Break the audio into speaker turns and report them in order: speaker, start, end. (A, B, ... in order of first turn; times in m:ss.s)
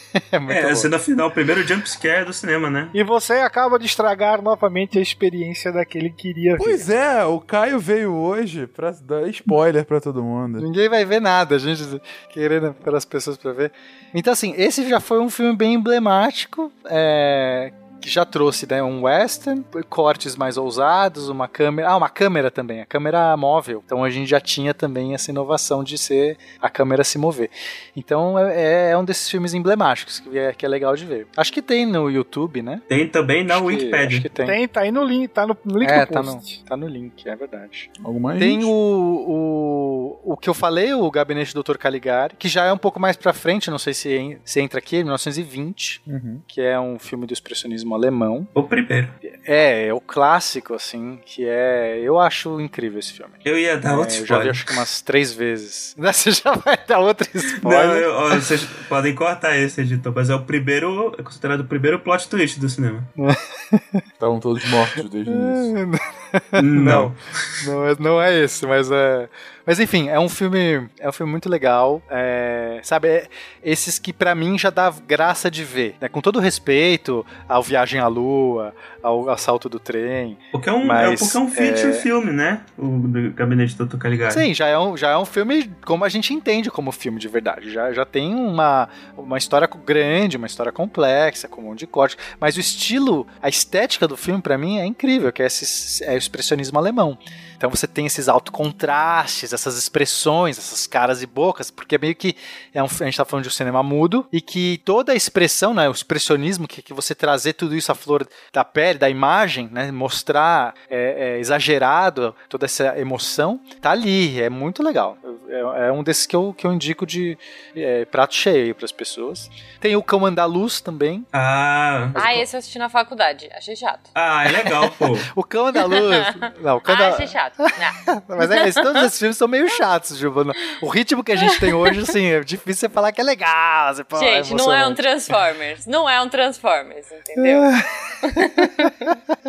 0:00.2-0:00.9 A
0:00.5-0:02.9 B
0:02.9-0:06.9 C
0:06.6-0:10.6 D
0:10.6-0:32.8 A
0:32.9-0:34.3 B
0:33.5-0:34.6 A
0:34.4-0:36.6 C
0:35.8-0:48.5 A
0:38.0-0:38.7 D
0:46.1-0:46.4 D
0:48.5-0:49.1 B
0:49.2-0:58.1 A
0:53.4-0:54.7 B
0:57.6-1:03.1 B
1:03.2-1:04.0 A
1:04.2-1:05.7 D
1:05.3-1:22.1 A
1:06.6-1:07.6 B
1:20.5-1:24.5 B
1:24.3-2:01.3 A
2:01.3-2:02.2 B
2:02.2-2:02.4 A
2:02.2-2:04.1 E
2:04.2-2:05.3 B
2:05.3-2:07.4 A
2:05.9-2:09.1 E
2:08.1-2:15.0 A
2:11.5-2:11.9 E
2:14.2-2:17.7 E
2:17.4-2:19.2 A
2:18.2-2:19.1 E